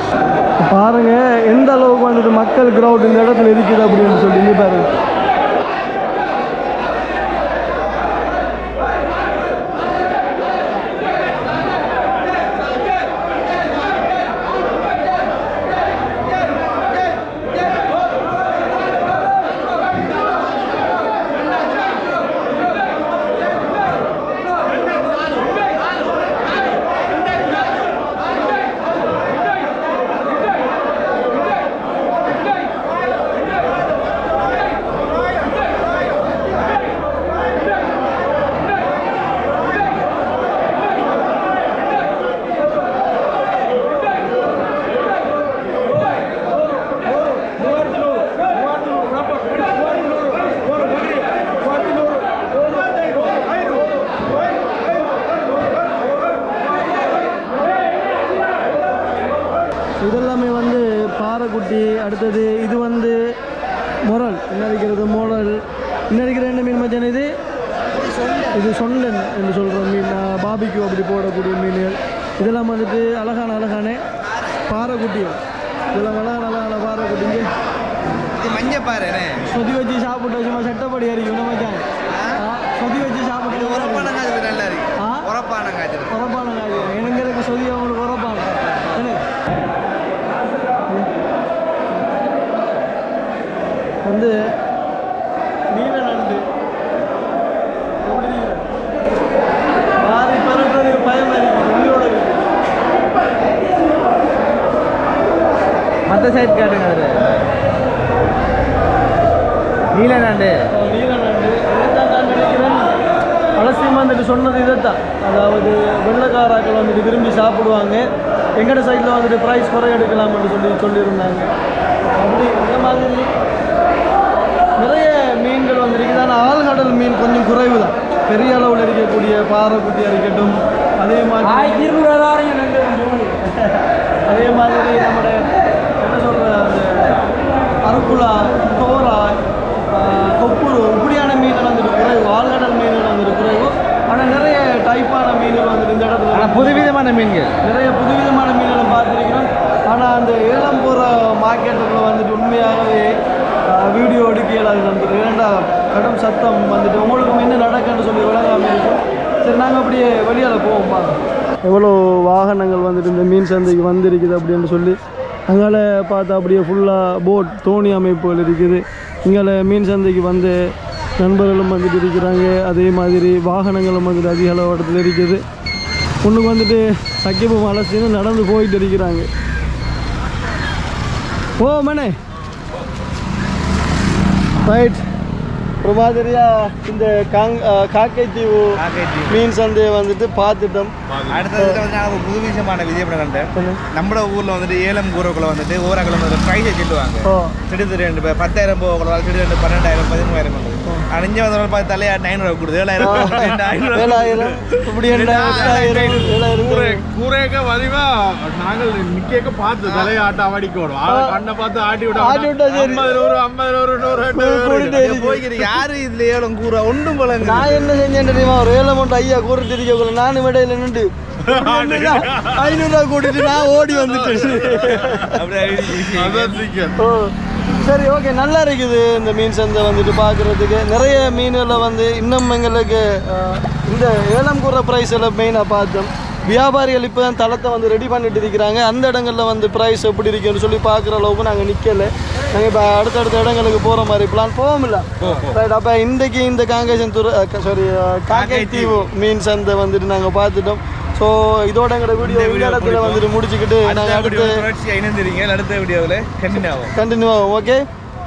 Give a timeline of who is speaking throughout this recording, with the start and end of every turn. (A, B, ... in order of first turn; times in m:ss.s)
0:00.6-0:04.9 A
1:00.0-1:03.2 A
1:04.1-1:05.6 A
1:06.1-1:07.3 A
1:08.5-1:14.0 A
1:14.7-1:15.4 A
1:15.9-1:17.5 A
1:18.4-1:19.4 B
1:19.4-1:21.9 A
1:22.1-1:22.4 B
1:22.4-1:24.1 A
1:23.5-1:26.8 B
1:25.0-1:25.3 A
1:26.1-1:29.2 A
1:34.0-1:34.4 A
1:35.7-1:36.4 A
1:38.0-1:38.7 A
1:40.0-1:42.4 A
1:46.1-1:47.4 B
1:49.9-1:50.6 B
1:50.7-1:52.9 A
1:53.6-1:58.1 A
1:58.6-2:01.5 A
2:02.2-2:03.3 A
2:04.8-2:15.5 A
2:16.0-2:17.1 A
2:17.9-2:19.4 A
2:19.9-2:26.9 A
2:26.3-2:27.6 B
2:27.6-2:33.2 A
2:33.7-2:45.0 A
2:45.5-2:55.4 A
2:56.2-2:59.3 A
3:01.6-3:02.2 A
3:04.7-3:05.0 A
3:05.8-3:08.8 A
3:08.8-3:09.5 B
3:09.3-3:10.9 A
3:11.1-3:11.5 C
3:11.3-3:24.4 B
3:13.6-3:13.8 A
3:17.3-3:17.6 A
3:23.0-3:27.0 A
3:23.1-3:24.5 C
3:25.1-3:26.0 C
3:25.1-3:26.4 B
3:26.6-3:35.0 C
3:29.9-3:30.1 B
3:31.1-3:31.3 A
3:32.2-3:33.2 A
3:34.3-3:35.8 A
3:34.9-3:37.9 B
3:37.4-3:45.4 A
3:41.4-3:47.0 C
3:45.3-3:46.6 B
3:47.0-4:14.6 A
4:05.2-4:05.6 B
4:05.2-4:05.5 C
4:08.3-4:09.1 B
4:12.2-4:13.3 B
4:13.8-4:16.9 B
4:16.9-4:17.8 A